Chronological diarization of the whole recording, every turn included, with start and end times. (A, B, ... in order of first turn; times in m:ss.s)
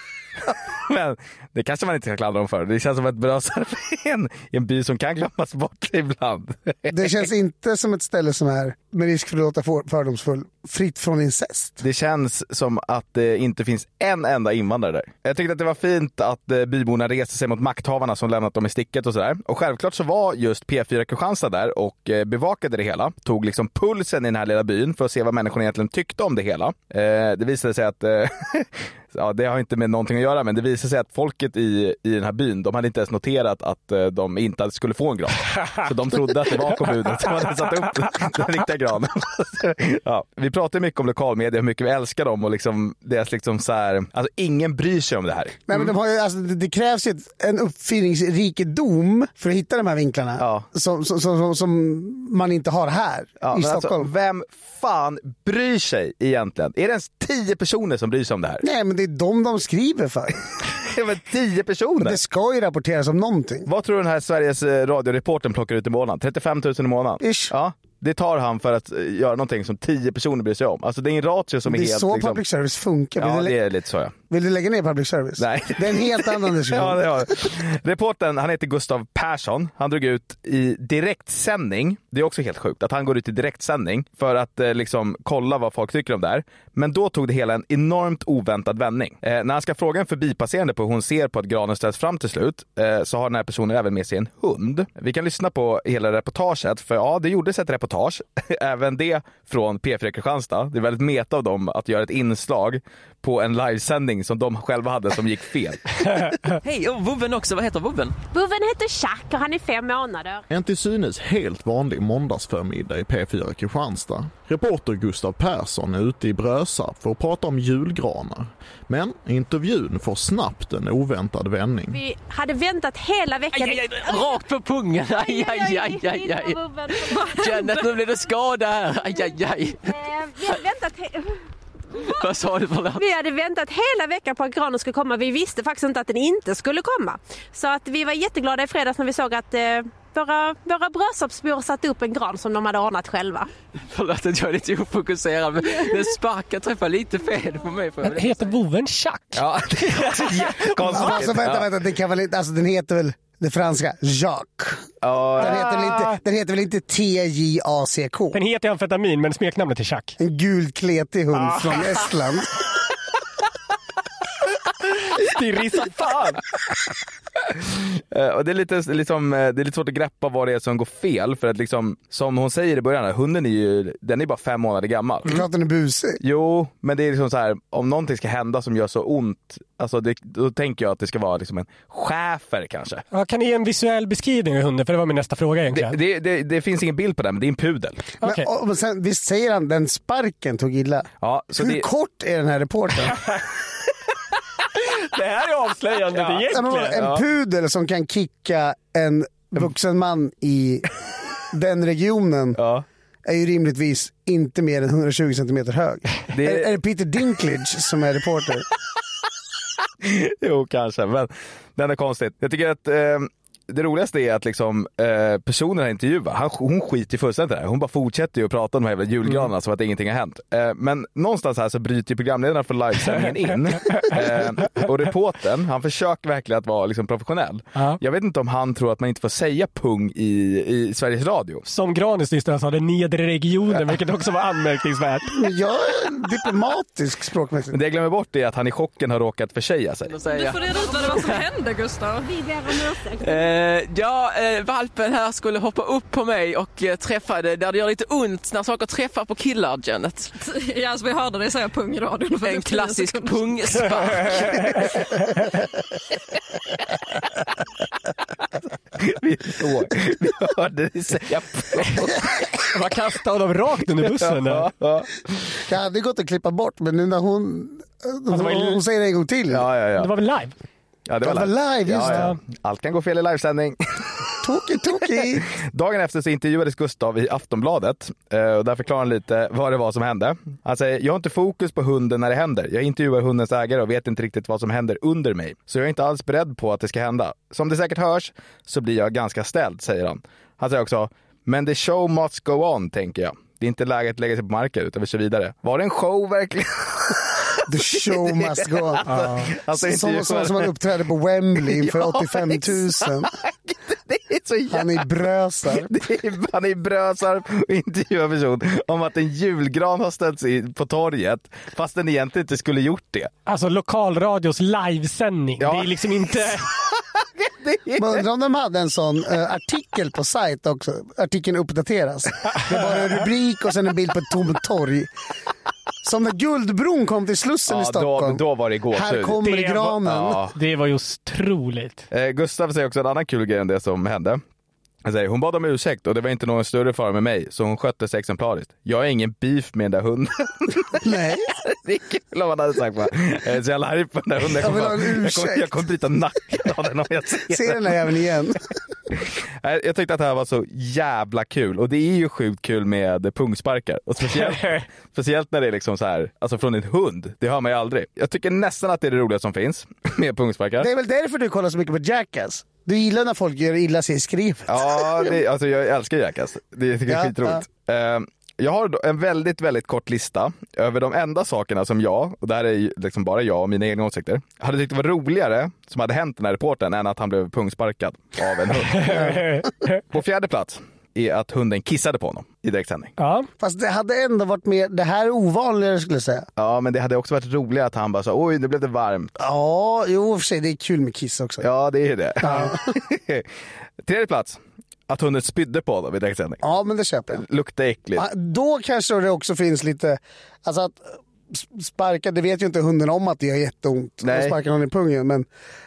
0:00.9-0:07.1 A
0:06.9-0:11.8 B
0:11.8-0:45.8 A
0:45.7-0:54.1 B
0:50.4-0:50.6 A
0:53.4-0:58.6 A
0:58.6-1:00.4 B
1:00.7-1:02.2 A
1:02.0-1:03.7 B
1:03.6-1:12.4 A
1:07.2-1:07.5 B
1:11.6-1:13.6 B
1:13.2-1:14.1 A
1:14.3-1:17.0 B
1:15.4-1:45.8 A
1:46.6-1:48.1 C
1:48.3-1:50.4 D
1:50.5-2:02.0 E
2:01.9-2:04.4 D
2:03.5-2:10.6 C
2:05.2-2:07.9 D
2:09.9-2:11.4 D
2:12.0-2:13.1 C
2:13.0-2:23.5 D
2:23.9-2:28.4 C
2:28.0-2:31.2 F
2:29.3-2:31.7 A
2:30.8-2:38.4 B
2:35.0-2:36.0 A
2:35.4-2:36.1 F
2:38.3-2:40.2 F
2:40.2-2:42.5 B
2:41.4-2:41.8 F
2:45.1-2:46.4 F
2:47.5-2:55.4 A
2:55.2-2:56.2 B
2:56.2-3:03.0 A
3:03.1-3:06.0 F
3:05.7-3:08.0 A
3:08.2-3:08.5 F
3:08.2-3:13.2 B
3:11.2-3:11.8 A
3:15.1-3:17.0 F
3:16.1-3:17.2 A
3:16.5-3:20.9 B
3:21.5-3:22.6 B
3:22.6-3:22.8 A
3:23.2-3:28.7 B
3:26.3-3:26.7 A
3:30.0-3:51.6 A
3:43.8-3:44.2 F
3:51.6-3:55.4 F
3:55.3-3:57.8 B
3:57.7-4:00.1 A
4:00.1-4:01.4 C
4:00.2-4:02.3 G
4:02.3-4:03.2 D
4:03.2-4:10.3 C
4:10.4-4:13.5 G
4:12.4-4:14.7 C
4:19.0-4:22.4 A
4:22.7-4:24.7 F
4:24.1-4:25.6 A
4:25.6-4:29.6 B
4:28.3-4:28.8 F
4:29.5-4:30.1 A
4:30.0-4:30.5 F
4:31.1-4:34.1 A
4:31.2-4:32.3 B
4:32.0-4:32.4 F
4:34.4-4:35.5 B
4:35.5-5:00.7 A
4:57.7-5:03.3 B
4:59.1-4:59.5 F
5:01.6-5:03.1 A
5:03.7-5:05.0 A
5:04.7-5:05.9 B
5:05.7-5:13.3 A
5:13.4-5:16.6 F
5:15.6-5:16.8 A
5:17.6-5:18.2 A
5:18.0-5:25.1 B
5:26.0-5:30.4 B
5:27.7-5:30.5 A
5:29.4-5:30.0 F
5:30.5-5:32.1 F
5:32.1-5:34.4 A
5:35.0-5:41.0 A
5:41.0-5:41.5 B
5:41.6-5:48.1 A
5:44.6-5:45.7 B
5:47.4-5:48.6 B
5:49.6-6:00.9 A
5:54.3-5:54.8 F
6:00.8-6:05.4 B
6:04.7-6:19.4 A
6:07.1-6:07.6 B
6:18.9-6:20.0 F
6:20.1-6:23.1 A
6:23.2-6:23.5 F
6:23.6-6:26.5 B
6:26.6-6:29.3 A
6:29.4-6:31.6 B
6:31.6-6:33.5 A
6:32.4-6:32.8 B
6:34.0-6:36.6 A
6:36.6-6:37.4 B
6:37.3-6:38.2 A
6:38.2-6:45.5 B
6:44.2-6:44.6 A